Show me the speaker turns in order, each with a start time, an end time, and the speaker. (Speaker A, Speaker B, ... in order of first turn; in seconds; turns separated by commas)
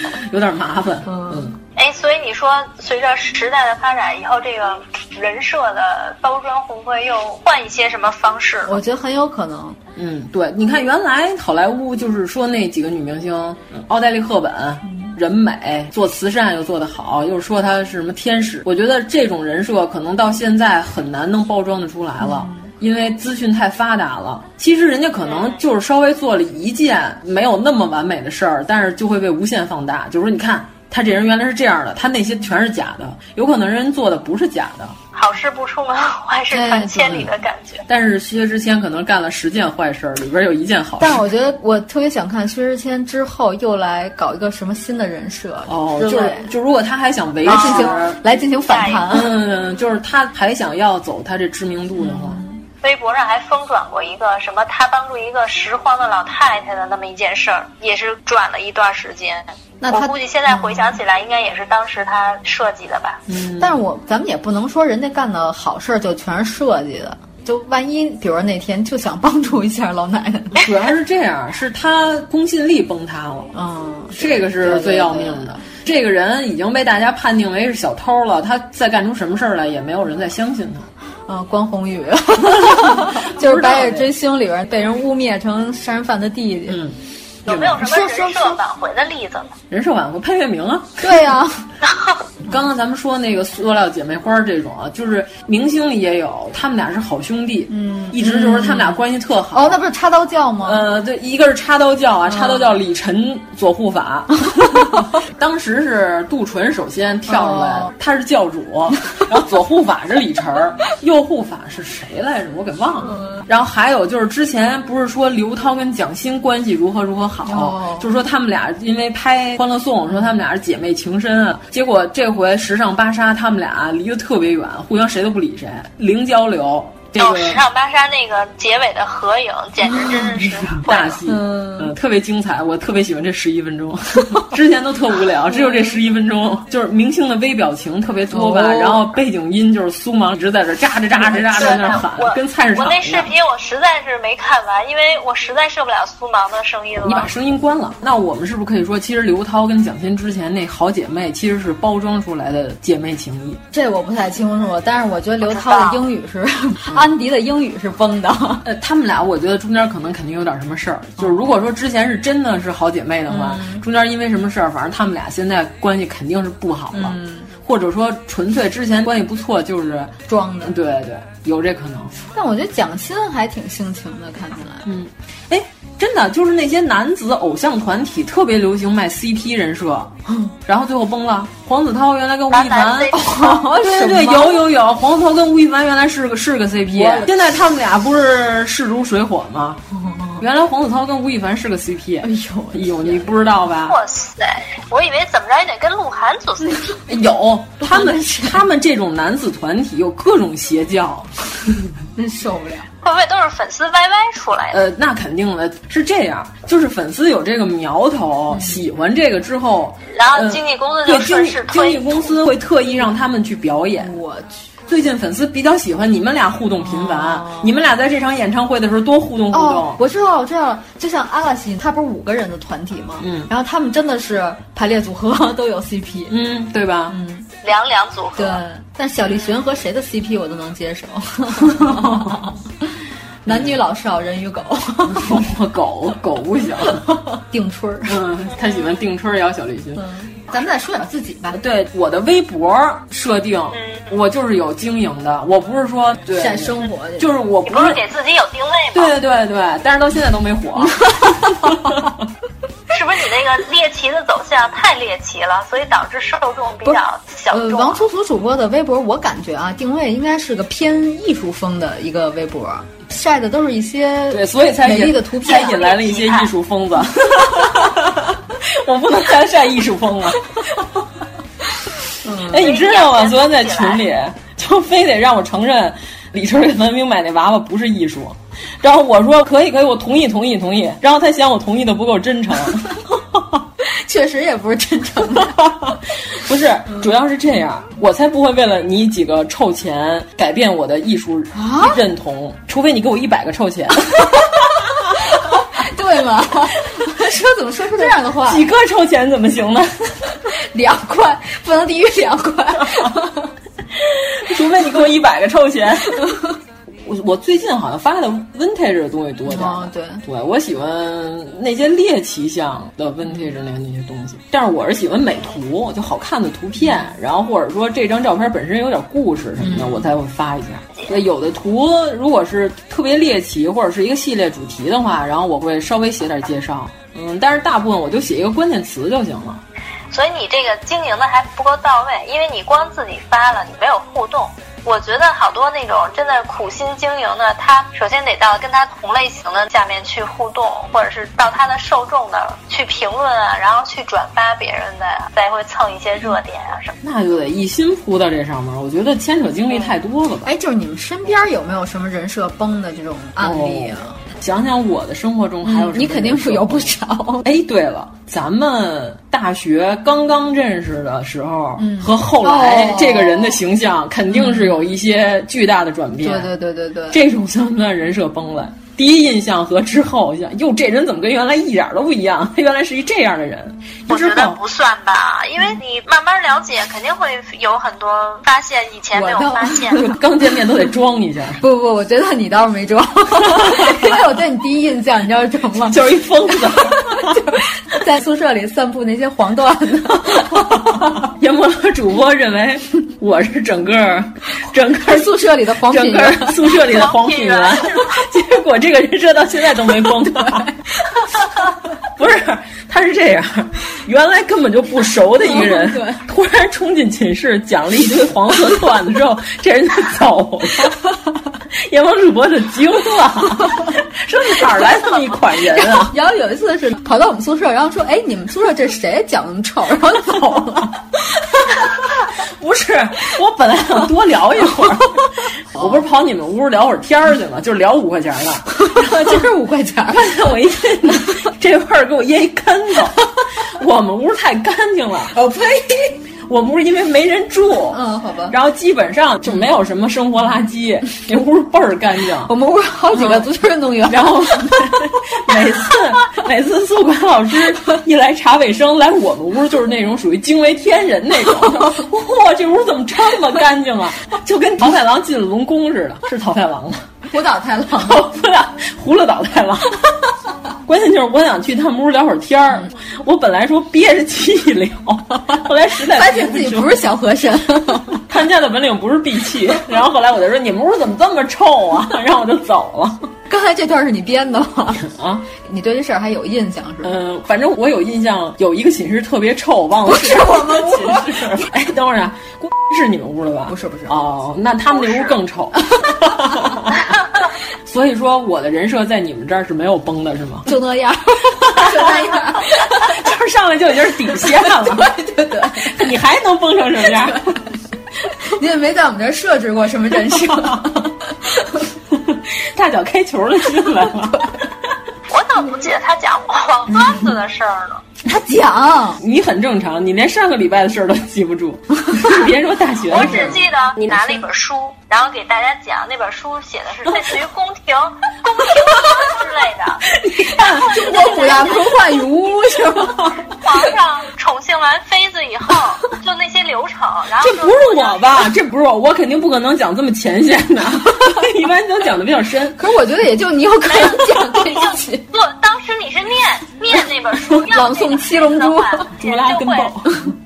Speaker A: 0.2-1.6, Speaker B: 1.1-1.5, Speaker C: 1.8-8.8, Speaker B: 8.7-9.8, Speaker A: 10.0-35.0, Speaker B: 22.2-22.6, Speaker C: 25.2-25.6, Speaker C: 35.1-37.9, Speaker B: 36.5-37.3, Speaker A: 37.9-41.2, Speaker B: 41.0-46.5, Speaker A: 45.7-48.2, Speaker B: 47.4-49.3, Speaker C: 47.5-48.0, Speaker C: 48.6-49.1, Speaker A: 49.1-52.4, Speaker B: 52.0-52.6, Speaker C: 52.8-63.2, Speaker B: 59.8-61.0, Speaker A: 63.3-63.8, Speaker B: 63.6-70.6, Speaker A: 70.6-73.5, Speaker B: 73.5-75.5, Speaker A: 74.2-80.9, Speaker B: 81.3-86.8, Speaker A: 82.6-84.1, Speaker A: 86.7-87.0, Speaker C: 87.5-89.5, Speaker A: 87.5-87.8, Speaker B: 87.7-88.6, Speaker A: 89.7-91.2, Speaker B: 91.0-91.7, Speaker C: 91.8-92.2, Speaker A: 92.5-99.8, Speaker B: 97.7-100.8, Speaker A: 100.7-127.6, Speaker B: 102.3-102.8, Speaker B: 107.3-107.9, Speaker B: 113.1-113.4, Speaker B: 117.5-118.1, Speaker C: 127.2-131.2, Speaker A: 130.4-143.3, Speaker B: 131.3-131.9, Speaker B: 135.5-136.0, Speaker B: 138.3-139.1, Speaker B: 141.2-141.8, Speaker C: 141.6-147.3, Speaker A: 147.0-153.6, Speaker B: 153.7-158.6, Speaker C: 155.5-156.0, Speaker A: 158.7-170.1, Speaker B: 163.3-163.8, Speaker B: 166.9-167.5, Speaker B: 170.3-170.8, Speaker A: 170.6-172.1, Speaker B: 172.3-174.8, Speaker A: 174.8-180.1, Speaker B: 180.3-180.6, Speaker A: 180.7-189.8, Speaker C: 182.5-183.6, Speaker B: 183.1-184.6, Speaker B: 186.9-187.3, Speaker B: 189.9-190.4, Speaker A: 190.4-194.0, Speaker B: 192.2-193.3, Speaker C: 193.9-197.0, Speaker A: 197.1-201.3, Speaker B: 197.8-198.6, Speaker B: 202.2-202.9, Speaker C: 203.0-204.8, Speaker A: 204.7-214.2, Speaker B: 208.5-208.8, Speaker C: 210.1-212.3, Speaker B: 214.0-214.6, Speaker A: 214.9-220.0, Speaker B: 216.8-217.7, Speaker B: 219.5-226.4, Speaker A: 223.2-223.5, Speaker A: 226.3-227.2, Speaker B: 227.1-227.5, Speaker C: 227.6-228.6, Speaker B: 228.4-232.6, Speaker A: 231.7-232.4, Speaker B: 233.5-235.4, Speaker A: 233.5-233.8, Speaker A: 235.1-237.1, Speaker B: 237.1-238.2, Speaker A: 238.1-240.0, Speaker B: 240.0-241.6, Speaker A: 241.5-248.0, Speaker C: 243.7-244.1, Speaker B: 246.3-247.3, Speaker C: 247.7-249.2, Speaker A: 248.9-252.1, Speaker B: 251.0-251.8, Speaker C: 252.9-258.0, Speaker B: 257.5-265.8, Speaker A: 264.3-270.6, Speaker C: 265.4-266.5, Speaker B: 272.2-272.7, Speaker A: 272.5-283.6, Speaker C: 272.6-274.1, Speaker B: 283.9-285.6, Speaker A: 285.5-294.4, Speaker B: 291.5-292.0, Speaker B: 295.8-298.7, Speaker A: 298.4-300.1, Speaker B: 300.7-303.5, Speaker A: 304.0-306.3, Speaker A: 307.0-329.6, Speaker B: 309.5-310.2, Speaker B: 319.6-320.1, Speaker C: 330.1-347.0, Speaker A: 347.0-350.5, Speaker B: 350.4-354.2, Speaker A: 353.4-356.9, Speaker B: 355.6-357.5, Speaker A: 357.4-366.5, Speaker B: 361.8-363.6, Speaker B: 364.3-364.8, Speaker B: 366.2-367.2, Speaker A: 367.1-374.6, Speaker C: 374.1-380.0, Speaker B: 379.1-380.1, Speaker A: 380.0-381.6, Speaker B: 381.6-386.0, Speaker A: 383.4-384.1, Speaker A: 385.9-387.4, Speaker B: 387.0-390.8, Speaker A: 390.9-400.7, Speaker B: 395.1-396.8, Speaker C: 396.8-398.2, Speaker A: 402.1-411.0, Speaker B: 405.5-406.2, Speaker A: 411.8-416.1, Speaker B: 415.7-420.9, Speaker A: 422.6-429.4, Speaker B: 428.7-430.2, Speaker A: 430.1-433.2, Speaker A: 433.8-435.4, Speaker B: 435.3-436.2, Speaker A: 436.5-438.0, Speaker B: 437.9-438.6, Speaker A: 438.5-442.5, Speaker B: 442.5-445.0, Speaker A: 443.1-443.5, Speaker A: 444.1-457.1, Speaker B: 457.3-458.3, Speaker A: 458.0-460.1, Speaker A: 460.9-467.0, Speaker B: 466.1-468.2, Speaker A: 468.2-473.3, Speaker B: 473.5-477.1, Speaker A: 475.1-475.5, Speaker A: 477.0-487.1, Speaker B: 480.1-481.5, Speaker B: 483.7-484.2, Speaker C: 484.9-485.4, Speaker A: 487.9-490.7, Speaker B: 490.7-493.1, Speaker A: 491.6-492.1, Speaker A: 492.8-495.2, Speaker B: 494.6-495.9, Speaker A: 495.8-497.6, Speaker B: 498.5-501.7, Speaker A: 502.1-504.5, Speaker C: 505.3-508.0, Speaker B: 508.2-509.2, Speaker A: 509.2-513.7, Speaker C: 513.1-520.0, Speaker B: 513.1-513.6, Speaker A: 520.2-521.6, Speaker B: 520.6-523.3, Speaker C: 520.7-522.0, Speaker C: 523.6-528.5, Speaker A: 527.4-532.8, Speaker B: 532.8-535.2, Speaker C: 533.9-540.0, Speaker B: 537.7-539.1, Speaker A: 539.2-540.1, Speaker B: 540.0-540.3